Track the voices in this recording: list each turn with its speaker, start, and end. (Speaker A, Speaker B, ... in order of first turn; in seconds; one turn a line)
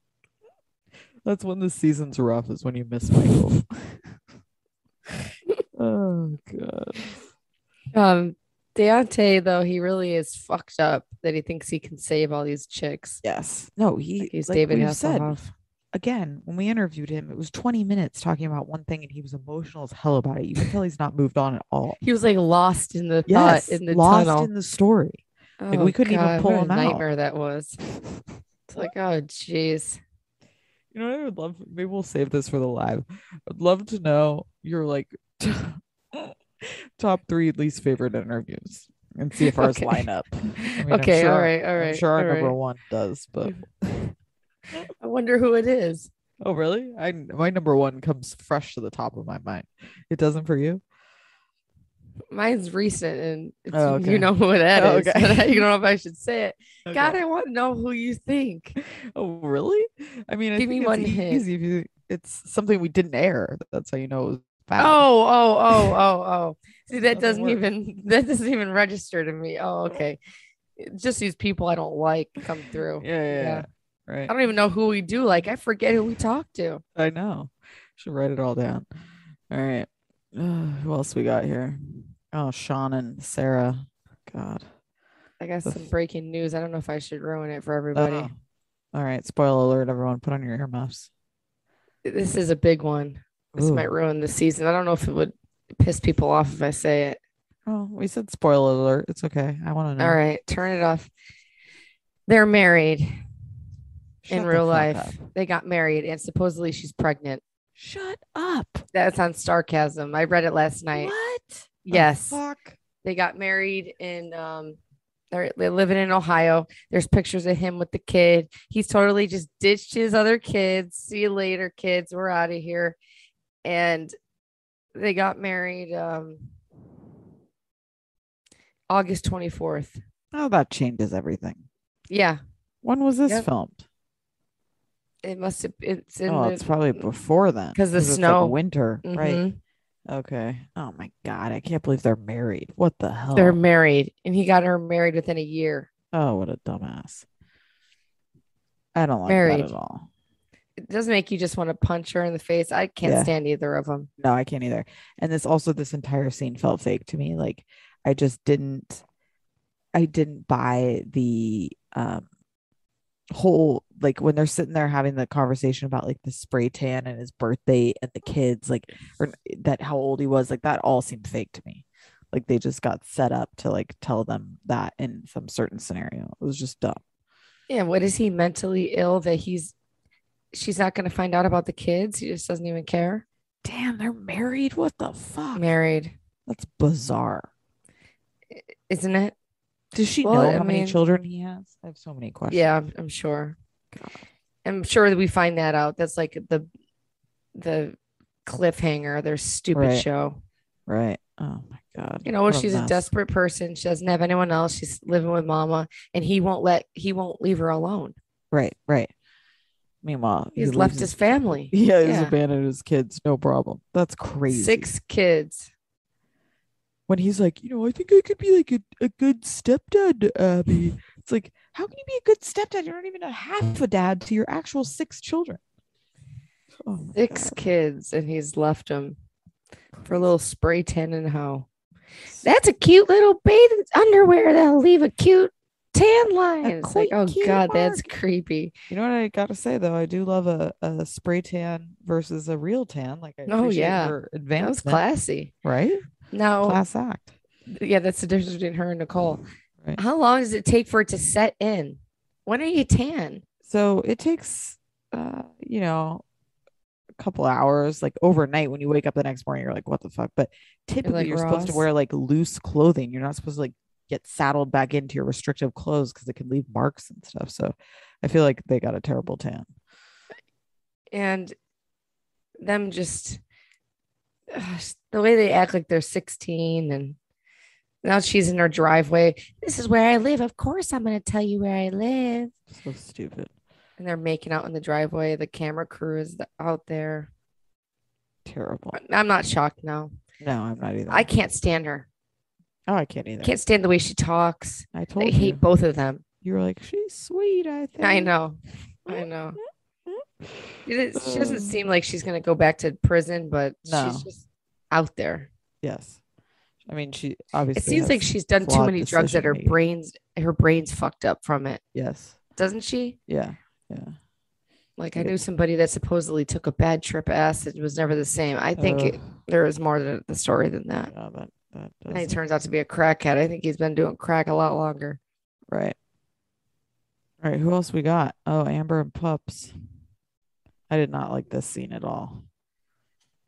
Speaker A: 1.2-4.0
Speaker A: 5.8-7.2
Speaker B: 7.9-13.2
Speaker A: 13.2-15.4
Speaker B: 14.2-15.5
Speaker A: 15.9-22.0
Speaker B: 22.0-24.5
Speaker A: 23.3-27.1
Speaker B: 25.6-27.8
Speaker B: 28.8-30.0
Speaker A: 30.9-44.1
Speaker B: 39.4-40.1
Speaker B: 40.9-42.6
Speaker B: 45.0-46.1
Speaker A: 46.4-50.8
Speaker B: 52.3-58.8
Speaker A: 53.7-55.7
Speaker A: 56.9-57.2
Speaker A: 58.8-65.0
Speaker B: 60.6-61.5
Speaker B: 64.8-70.2
Speaker A: 67.1-67.6
Speaker B: 70.8-73.7
Speaker A: 73.0-74.3
Speaker B: 74.3-76.8
Speaker A: 77.0-78.9
Speaker A: 79.5-84.7
Speaker B: 85.4-88.3
Speaker A: 87.9-88.3
Speaker A: 88.9-91.1
Speaker B: 92.0-97.2
Speaker A: 93.5-93.9
Speaker A: 97.7-100.2
Speaker B: 100.0-101.1
Speaker B: 102.3-103.1
Speaker A: 104.2-105.2
Speaker B: 104.3-107.4
Speaker A: 107.8-108.8
Speaker B: 108.9-111.1
Speaker A: 111.0-112.8
Speaker B: 111.8-112.4
Speaker B: 113.0-114.8
Speaker B: 115.3-123.0
Speaker B: 123.6-124.1
Speaker B: 125.0-126.5
Speaker B: 128.9-130.0
Speaker A: 130.3-131.7
Speaker B: 132.1-132.4
Speaker A: 132.8-133.8
Speaker B: 135.2-137.0
Speaker A: 136.3-139.4
Speaker B: 137.8-139.6
Speaker A: 140.1-143.6
Speaker B: 143.4-145.9
Speaker A: 146.1-147.3
Speaker A: 148.9-150.1
Speaker B: 149.3-149.7
Speaker B: 150.8-154.1
Speaker A: 153.0-153.3
Speaker A: 154.2-159.0
Speaker A: 159.9-162.2
Speaker A: 163.3-177.0
Speaker B: 177.7-179.7
Speaker B: 180.5-183.2
Speaker A: 183.6-185.7
Speaker B: 185.6-186.1
Speaker A: 186.5-187.5
Speaker B: 188.5-189.3
Speaker A: 189.9-192.7
Speaker B: 190.2-191.0
Speaker B: 192.5-193.6
Speaker B: 194.7-196.7
Speaker B: 197.6-200.4
Speaker A: 199.7-200.1
Speaker A: 200.9-203.1
Speaker B: 202.2-208.2
Speaker A: 208.5-209.1
Speaker A: 210.0-211.2
Speaker B: 210.6-212.4
Speaker A: 211.7-214.9
Speaker B: 214.5-215.7
Speaker A: 217.1-225.6
Speaker A: 226.8-227.6
Speaker B: 227.2-229.2
Speaker B: 230.1-231.7
Speaker B: 232.4-238.7
Speaker A: 236.6-238.1
Speaker A: 238.9-245.0
Speaker B: 243.5-245.5
Speaker A: 245.7-246.0
Speaker B: 246.3-246.8
Speaker A: 246.6-247.3
Speaker B: 247.7-249.4
Speaker B: 250.0-253.4
Speaker A: 253.7-256.2
Speaker A: 257.2-269.7
Speaker B: 261.0-261.9
Speaker B: 271.1-271.5
Speaker B: 272.6-273.4
Speaker B: 274.5-277.2
Speaker B: 278.0-282.5
Speaker A: 282.7-283.5
Speaker B: 284.0-287.3
Speaker A: 288.4-289.0
Speaker B: 288.9-290.1
Speaker A: 290.4-291.3
Speaker B: 291.1-292.1
Speaker A: 292.9-293.6
Speaker B: 293.4-296.2
Speaker A: 294.9-295.6
Speaker A: 296.4-298.3
Speaker B: 298.0-299.6
Speaker A: 300.1-300.6
Speaker B: 300.9-305.5
Speaker A: 301.2-301.8
Speaker A: 303.9-304.3
Speaker A: 305.8-306.2
Speaker A: 306.9-309.8
Speaker B: 307.7-311.8
Speaker A: 311.9-312.4
Speaker B: 312.6-313.2
Speaker A: 313.3-314.2
Speaker B: 315.0-321.1
Speaker A: 318.8-319.3
Speaker A: 321.1-322.4
Speaker B: 322.1-325.2
Speaker A: 325.7-326.0
Speaker A: 327.4-329.7
Speaker A: 330.9-332.4